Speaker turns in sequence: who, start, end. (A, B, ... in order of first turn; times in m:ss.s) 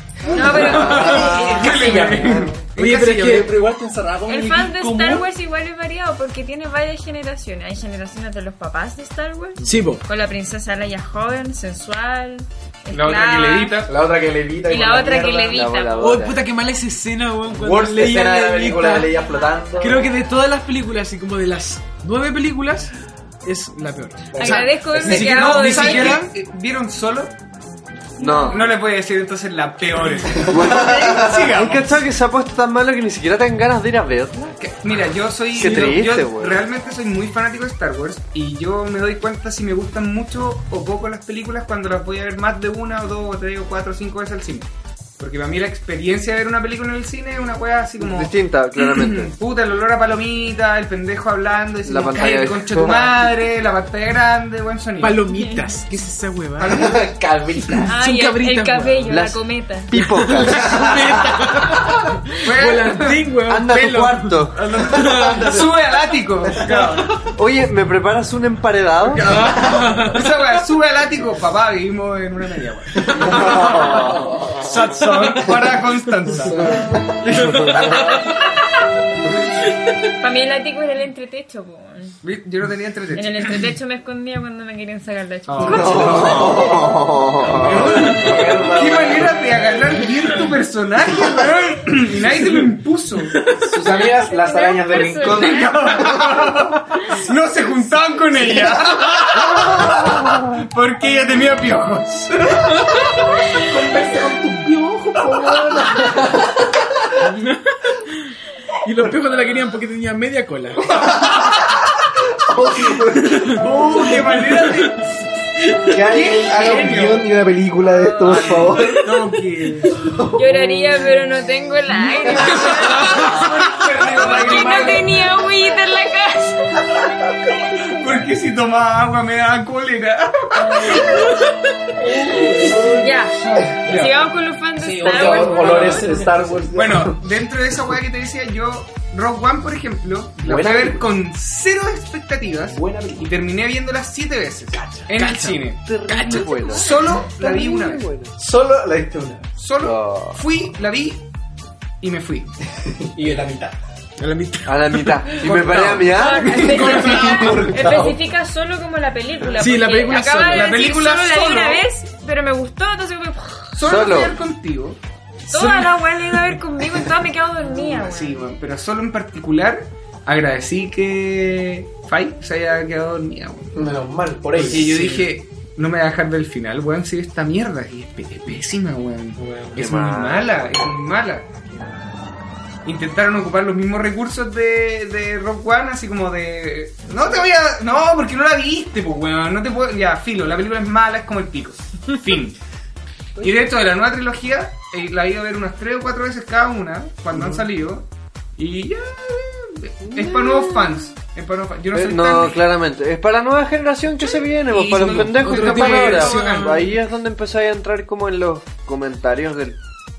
0:00.3-0:02.5 A
0:00.3-0:02.0 B
0:00.4-0:03.5 C
0:01.1-0:02.5 D
0:02.8-0:03.5 E
0:03.2-0:05.3 D
0:04.2-0:13.9 B
0:09.6-0:10.0 E
0:12.9-0:13.9 C
0:13.8-0:15.6 A
0:14.6-0:16.1 B
0:15.5-0:16.4 F
0:16.0-0:19.1 E
0:17.5-0:20.1 A
0:19.8-0:22.9 E
0:23.4-0:26.2 E
0:24.3-0:25.2 A
0:24.4-0:26.2 B
0:25.0-0:27.3 C
0:28.2-0:28.6 F
0:28.2-0:28.5 B
0:28.5-0:32.0 C
0:30.4-0:31.3 A
0:30.4-0:34.5 F
0:34.6-0:44.7 C
0:35.5-0:36.6 F
0:35.6-0:35.8 E
0:45.2-0:55.2 C
0:48.0-0:49.3 F
0:51.8-0:53.2 F
0:55.0-0:56.8 E
0:55.3-0:55.7 B
0:56.6-0:57.1 C
0:56.7-0:57.9 A
0:57.9-0:59.9 B
0:57.9-0:59.1 E
0:59.1-1:01.0 F
1:00.0-1:05.5 E
1:00.5-1:01.9 A
1:02.4-1:03.2 C
1:03.5-1:04.7 F
1:04.5-1:07.1 C
1:04.9-1:05.8 A
1:06.4-1:07.2 A
1:07.4-1:09.3 F
1:09.2-1:18.0 C
1:09.2-1:10.0 A
1:09.3-1:10.2 E
1:13.0-1:14.4 A
1:13.2-1:14.3 F
1:14.6-1:15.5 E
1:16.3-1:17.2 A
1:17.4-1:17.9 E
1:20.2-1:22.2 B
1:22.2-1:23.7 C
1:23.1-1:26.4 B
1:25.5-1:26.4 C
1:25.6-1:29.4 A
1:26.0-1:28.5 F
1:27.6-1:33.4 C
1:33.4-1:33.8 E
1:33.7-1:36.6 A
1:33.8-1:35.9 B
1:35.2-1:43.1 C
1:38.4-1:38.9 A
1:39.4-1:39.9 A
1:43.6-1:46.9 A
1:47.2-1:48.0 E
1:48.8-1:50.9 E
1:50.9-1:51.4 A
1:52.4-1:53.6 A
1:53.4-1:55.1 C
1:54.1-1:54.4 E
1:55.9-1:59.1 A
1:56.1-1:57.3 C
1:58.1-1:58.4 B
1:58.2-2:00.0 C
2:00.0-2:00.8 A
2:00.3-2:06.9 B
2:02.2-2:05.3 C
2:07.8-2:11.3 C
2:10.8-2:11.3 B
2:12.0-2:13.8 A
2:12.3-2:16.1 B
2:13.4-2:14.2 C
2:14.8-2:16.7 D
2:15.0-2:17.2 A
2:15.6-2:15.9 C
2:16.7-2:28.1 C
2:20.4-2:21.1 A
2:22.7-2:23.3 A
2:24.7-2:25.0 A
2:25.1-2:26.7 E
2:25.8-2:28.3 F
2:28.4-2:29.4 A
2:29.6-2:31.2 C
2:29.8-2:30.4 F
2:32.0-2:32.5 C
2:32.8-2:33.8 A
2:34.2-2:37.5 E
2:34.6-2:37.1 F
2:36.1-2:43.8 B
2:36.5-2:38.2 A
2:39.6-2:40.7 E
2:40.4-2:41.9 C
2:43.8-2:45.0 C
2:43.8-2:44.3 F
2:45.5-2:48.5 B
2:45.5-2:45.9 C
2:47.6-2:53.8 C
2:53.7-2:55.1 A
2:54.5-3:01.5 C
2:54.9-2:55.2 E
2:59.4-2:59.8 A
2:59.7-3:00.5 F
3:02.8-3:12.6 C
3:07.1-3:07.4 A
3:13.4-3:18.0 C
3:18.6-3:22.7 C
3:20.1-3:20.9 F
3:21.9-3:29.8 F
3:24.3-3:26.9 C
3:25.4-3:26.9 E